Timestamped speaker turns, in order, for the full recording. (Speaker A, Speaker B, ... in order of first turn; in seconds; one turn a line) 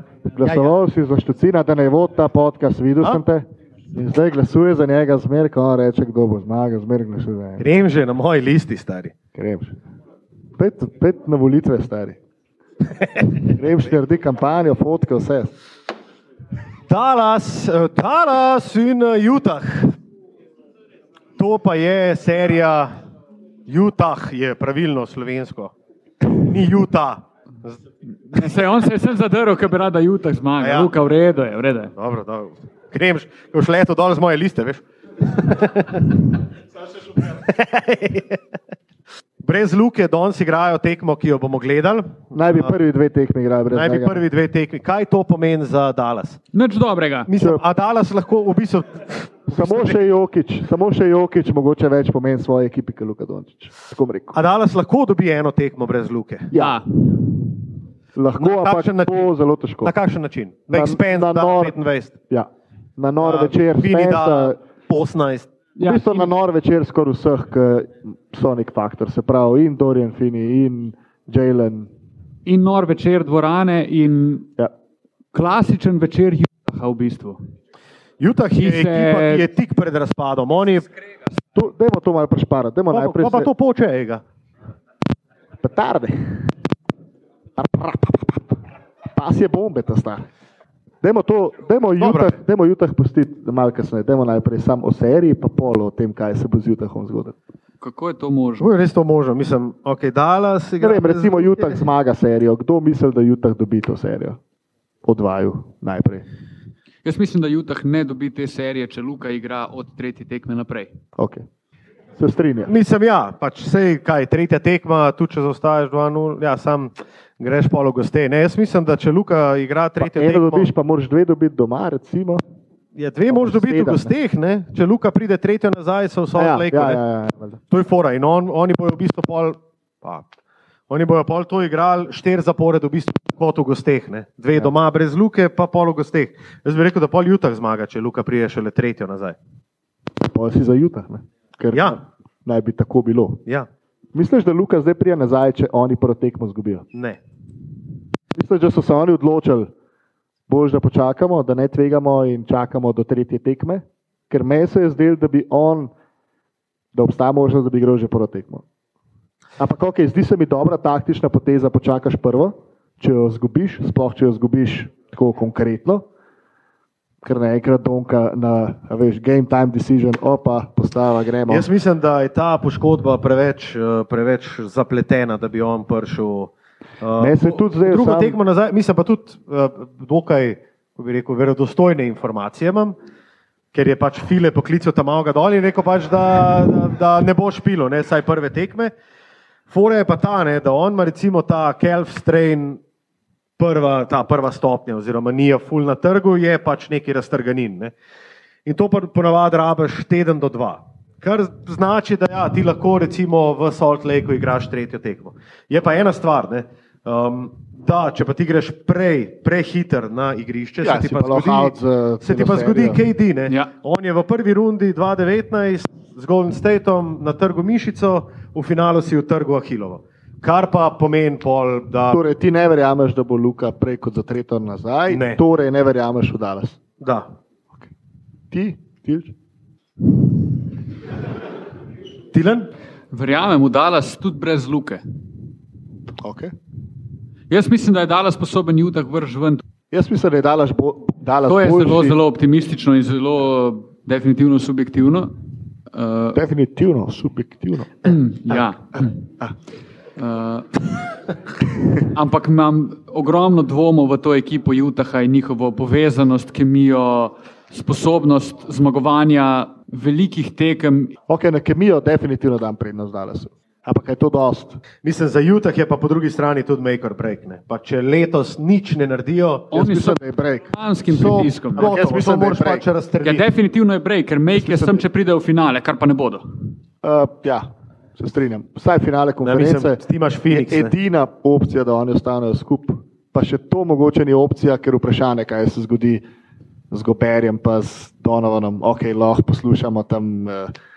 Speaker A: 0.3-7.6
Speaker B: 0.4-0.7
Speaker B: 7.6-9.1
Speaker A: 9.3-9.7
Speaker A: 10.6-12.2
Speaker A: 13.5-15.5
Speaker B: 16.9-19.9
Speaker B: 21.4-22.9
Speaker B: 23.7-25.7
Speaker B: 26.4-27.8
Speaker C: 28.3-31.9
Speaker B: 30.6-30.9
Speaker B: 32.0-36.2
Speaker B: 37.2-38.4
Speaker B: 39.4-42.7
Speaker A: 42.3-44.2
Speaker B: 43.7-46.4
Speaker C: 46.5-47.3
Speaker B: 47.3-50.0
Speaker A: 49.5-54.4
Speaker B: 54.3-56.5
Speaker A: 56.5-56.8
Speaker C: 56.5-56.8
Speaker A: 58.1-59.9
Speaker B: 58.4-59.3
Speaker B: 59.8-62.1
Speaker A: 60.7-61.7
Speaker A: 62.3-64.6
Speaker B: 63.2-65.5
Speaker C: 65.8-66.3
Speaker A: 65.8-71.9
Speaker C: 72.5-74.5
Speaker C: 75.3-77.4
Speaker B: 78.2-80.9
Speaker C: 78.5-79.5
Speaker A: 81.5-83.5
Speaker B: 82.9-84.2
Speaker A: 85.6-86.5
Speaker A: 87.6-88.6
Speaker A: 89.1-90.3
Speaker A: 91.0-97.3
Speaker B: 92.0-92.3
Speaker C: 97.8-98.7
Speaker B: 98.6-101.8
Speaker A: 100.8-104.4
Speaker A: 105.0-106.2
Speaker C: 107.0-110.9
Speaker A: 111.2-111.5
Speaker A: 112.2-112.7
Speaker B: 112.7-120.7
Speaker A: 120.0-122.4
Speaker B: 122.9-127.0
Speaker A: 123.3-124.1
Speaker A: 126.3-127.6
Speaker B: 127.7-130.2
Speaker B: 130.9-139.4
Speaker A: 140.2-143.4
Speaker B: 141.7-142.0
Speaker A: 144.1-146.8
Speaker B: 146.9-147.2
Speaker A: 148.3-149.7
Speaker A: 150.5-155.9
Speaker A: 156.9-158.6
Speaker A: 159.6-166.1
Speaker A: 167.2-171.7
Speaker B: 171.5-182.9
Speaker A: 177.2-178.4
Speaker B: 183.7-188.9
Speaker B: 189.7-192.8
Speaker B: 193.6-197.9
Speaker B: 198.6-222.2
Speaker A: 210.8-213.0
Speaker A: 222.1-226.8
Speaker B: 225.1-225.4
Speaker B: 227.0-227.3
Speaker A: 228.5-229.3
Speaker B: 232.3-232.7
Speaker C: 233.1-235.0
Speaker A: 236.2-236.5
Speaker C: 237.5-239.6
Speaker A: 239.9-242.2
Speaker C: 241.5-245.3
Speaker C: 245.9-246.4
Speaker A: 246.3-248.0
Speaker C: 248.0-249.2
Speaker C: 250.2-250.7
Speaker C: 252.1-261.1
Speaker A: 261.3-264.8
Speaker B: 265.0-269.7
Speaker C: 269.7-270.2
Speaker A: 269.7-270.7
Speaker C: 270.7-271.9
Speaker B: 271.1-273.5
Speaker A: 271.7-272.9
Speaker C: 273.2-276.4
Speaker A: 274.5-275.0
Speaker A: 277.0-286.2
Speaker B: 279.4-280.9
Speaker A: 286.9-290.7